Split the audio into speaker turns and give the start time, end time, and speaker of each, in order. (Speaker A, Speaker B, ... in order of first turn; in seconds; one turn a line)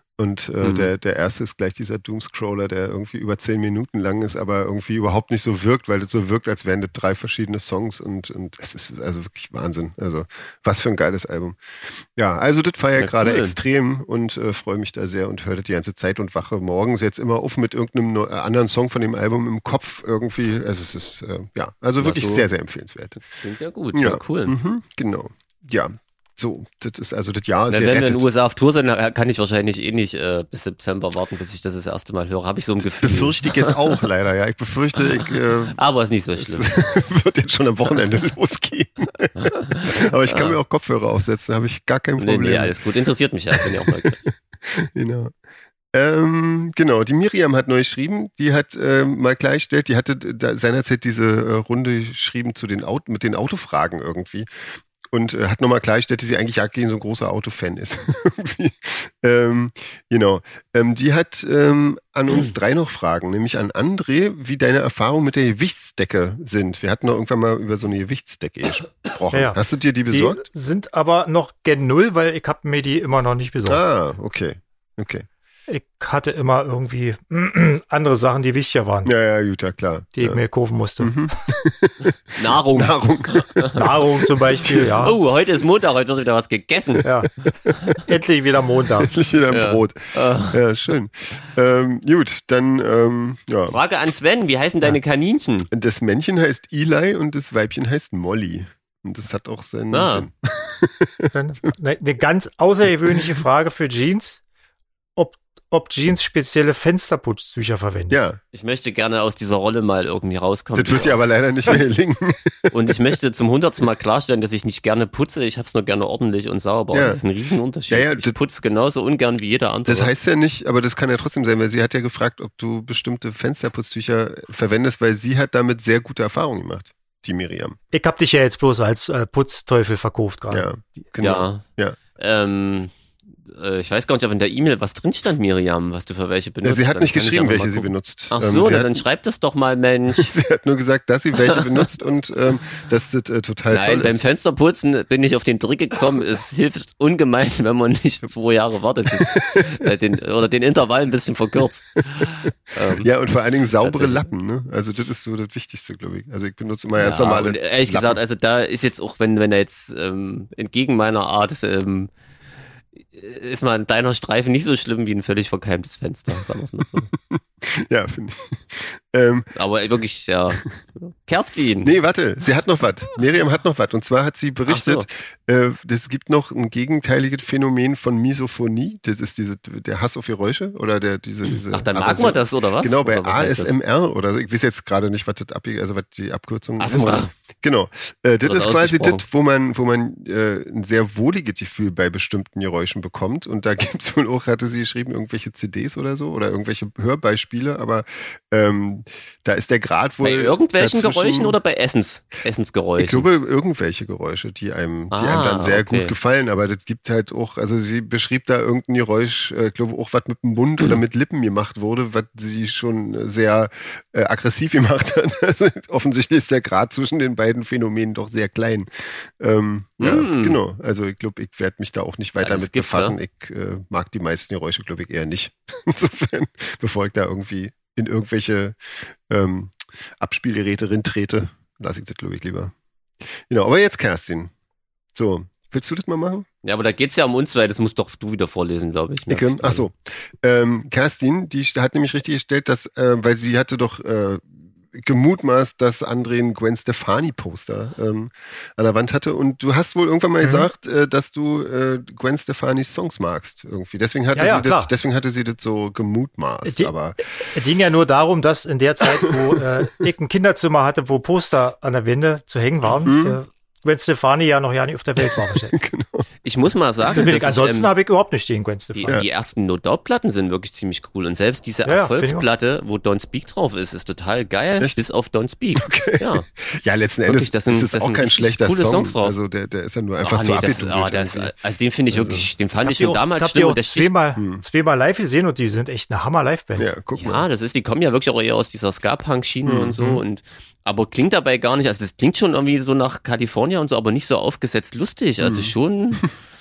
Speaker A: 0.1-23.2
Speaker B: 0.6-0.9
Speaker B: 13.0-13.6
Speaker B: 22.0-22.5
Speaker B: 23.4-24.6
Speaker A: 23.9-28.3
Speaker B: 27.7-34.0
Speaker A: 33.0-35.8
Speaker B: 35.3-36.9
Speaker A: 36.4-42.8
Speaker B: 39.4-40.6
Speaker B: 42.2-44.2
Speaker A: 43.5-45.3
Speaker A: 45.9-70.4
Speaker C: 69.3-69.6
Speaker C: 70.1-73.8
Speaker A: 73.6-75.3
Speaker C: 75.7-79.1
Speaker A: 79.0-80.4
Speaker C: 80.2-81.3
Speaker A: 81.0-85.2
Speaker B: 82.3-83.8
Speaker C: 83.8-85.2
Speaker B: 85.0-87.1
Speaker C: 87.0-87.3
Speaker A: 87.7-87.9
Speaker C: 88.0-89.1
Speaker A: 89.0-93.8
Speaker B: 89.5-90.6
Speaker B: 93.7-95.7
Speaker A: 95.7-101.3
Speaker B: 99.9-100.3
Speaker C: 101.3-104.4
Speaker C: 105.2-108.2
Speaker A: 108.1-108.4
Speaker B: 108.5-111.2
Speaker A: 110.8-113.1
Speaker B: 112.7-120.1
Speaker A: 116.9-117.2
Speaker A: 117.9-118.3
Speaker A: 119.9-127.8
Speaker C: 127.9-130.7
Speaker A: 130.5-132.0
Speaker B: 131.2-131.6
Speaker B: 132.2-132.9
Speaker B: 133.5-140.3
Speaker A: 136.6-139.0
Speaker A: 140.1-144.2
Speaker B: 141.4-141.8
Speaker B: 143.7-153.1
Speaker A: 149.1-149.9
Speaker A: 153.0-158.2
Speaker B: 153.8-154.3
Speaker B: 157.0-162.1
Speaker B: 163.0-167.1
Speaker A: 167.1-169.5
Speaker B: 169.6-171.9
Speaker A: 171.8-201.6
Speaker B: 174.7-175.1
Speaker B: 181.6-183.8
Speaker B: 186.8-187.3
Speaker B: 188.4-189.2
Speaker B: 200.2-203.3
Speaker A: 203.0-232.7
Speaker B: 205.1-206.1
Speaker B: 220.0-220.6
Speaker B: 222.4-223.2
Speaker A: 233.5-234.5
Speaker A: 235.2-236.5
Speaker B: 236.6-239.8
Speaker A: 239.3-257.2
Speaker C: 250.4-250.7
Speaker C: 254.3-254.9
Speaker C: 256.6-256.9
Speaker C: 257.5-265.8
Speaker A: 259.2-259.7
Speaker A: 263.1-263.4
Speaker A: 265.2-266.3
Speaker B: 266.4-267.9
Speaker C: 267.1-269.2
Speaker B: 268.9-276.5
Speaker C: 271.9-272.5
Speaker A: 275.8-281.5
Speaker B: 277.3-279.4
Speaker B: 280.2-284.1
Speaker A: 282.1-282.5
Speaker C: 282.8-286.9
Speaker A: 284.4-284.6
Speaker A: 286.8-287.5
Speaker B: 287.1-296.4
Speaker A: 289.6-290.2
Speaker A: 295.4-296.2